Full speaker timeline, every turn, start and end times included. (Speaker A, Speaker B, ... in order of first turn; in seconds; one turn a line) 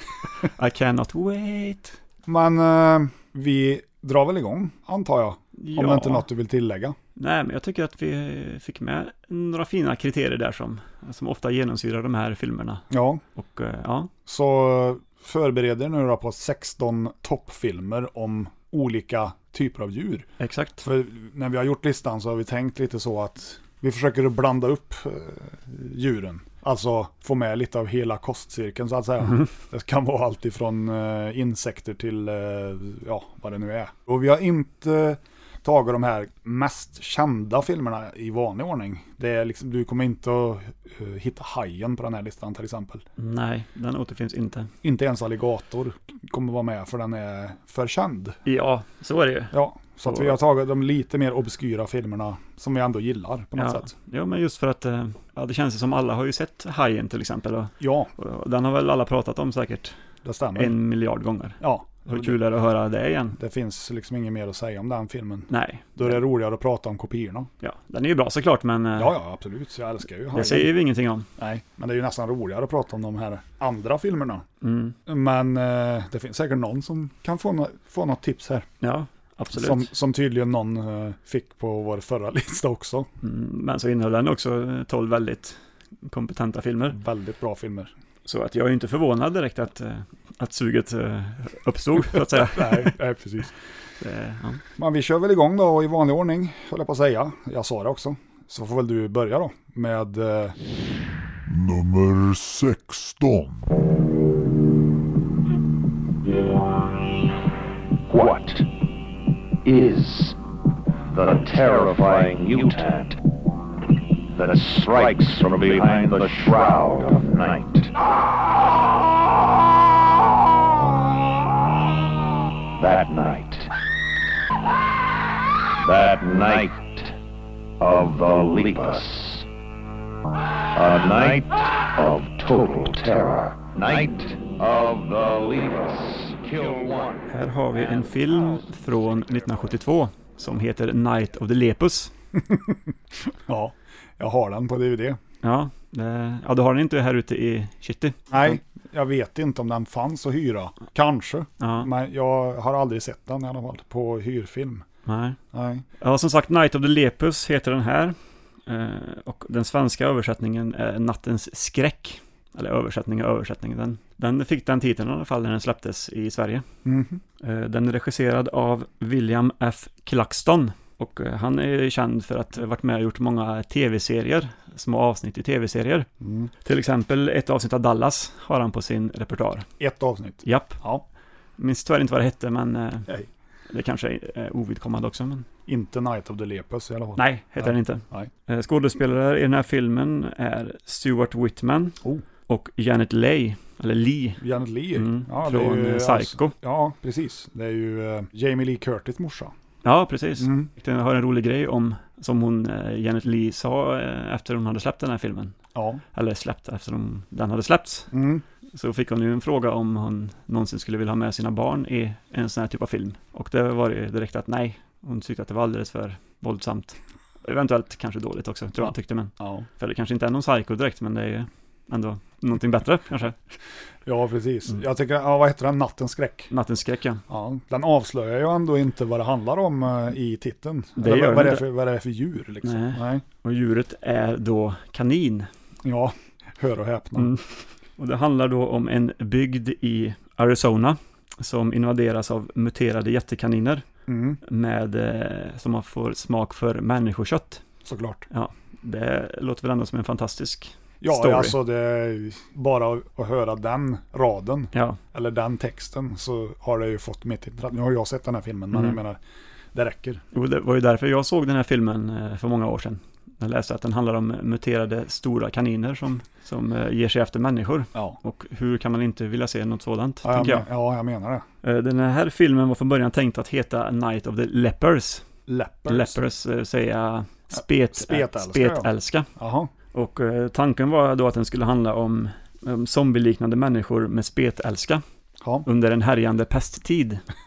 Speaker A: 0.4-1.9
Speaker B: 2.2-7.0
Speaker A: 5.5-6.2
Speaker A: 7.2-14.1
Speaker B: 12.9-13.2
Speaker B: 14.2-20.3
Speaker A: 20.4-20.9
Speaker B: 20.8-43.0
Speaker A: 43.2-44.7
Speaker B: 44.8-48.4
Speaker A: 48.4-50.4
Speaker B: 49.5-53.9
Speaker A: 53.5-59.9
Speaker B: 57.8-58.1
Speaker B: 60.2-60.7
Speaker A: 60.5-63.4
Speaker B: 61.6-62.4
Speaker B: 63.4-67.5
Speaker A: 65.5-66.2
Speaker A: 67.6-69.1
Speaker B: 69.0-70.7
Speaker A: 70.3-71.3
Speaker B: 71.4-74.4
Speaker A: 74.6-75.0
Speaker B: 75.1-78.7
Speaker A: 78.8-79.9
Speaker B: 79.5-83.1
Speaker A: 83.2-87.0
Speaker B: 86.9-87.9
Speaker A: 88.2-92.9
Speaker B: 92.3-93.5
Speaker A: 94.0-94.6
Speaker B: 94.8-100.5
Speaker C: 101.5-103.6
Speaker D: 108.1-108.7
Speaker D: 109.6-110.4
Speaker D: 111.1-113.2
Speaker D: 114.3-117.9
Speaker D: 122.8-123.7
Speaker D: 125.8-127.1
Speaker D: 127.8-129.4
Speaker D: 130.7-137.2
Speaker A: 137.3-142.1
Speaker B: 142.4-142.8
Speaker B: 143.3-145.2
Speaker A: 145.4-148.6
Speaker B: 148.3-154.8
Speaker A: 151.6-151.9
Speaker A: 155.1-155.4
Speaker B: 155.5-155.8
Speaker A: 156.0-166.7
Speaker B: 166.8-167.2
Speaker A: 167.4-176.1
Speaker B: 176.2-176.5
Speaker A: 176.6-179.7
Speaker B: 179.8-181.0
Speaker A: 180.4-180.8
Speaker A: 181.6-183.1
Speaker A: 183.7-185.5
Speaker B: 185.7-188.3
Speaker A: 187.2-194.4
Speaker B: 194.4-199.5
Speaker A: 194.9-196.5
Speaker A: 199.8-205.5
Speaker B: 200.4-200.7
Speaker B: 205.7-206.0
Speaker A: 206.1-208.1
Speaker B: 208.1-208.4
Speaker A: 208.7-223.4
Speaker B: 218.8-219.7
Speaker B: 224.0-226.5
Speaker A: 226.5-227.2
Speaker B: 227.3-233.2
Speaker A: 231.0-231.7
Speaker A: 232.6-235.5
Speaker B: 235.8-237.3
Speaker A: 237.2-243.8
Speaker B: 244.1-244.4
Speaker A: 244.4-247.6
Speaker B: 247.8-248.2
Speaker A: 248.3-251.6
Speaker B: 251.0-259.2
Speaker A: 254.7-255.0
Speaker A: 258.7-259.0
Speaker B: 259.7-260.2
Speaker A: 260.3-270.7
Speaker B: 270.2-271.4
Speaker A: 271.6-275.3
Speaker B: 275.5-276.2
Speaker A: 275.9-279.3
Speaker B: 277.5-279.7
Speaker A: 279.9-285.0
Speaker B: 285.4-285.6
Speaker A: 285.6-287.2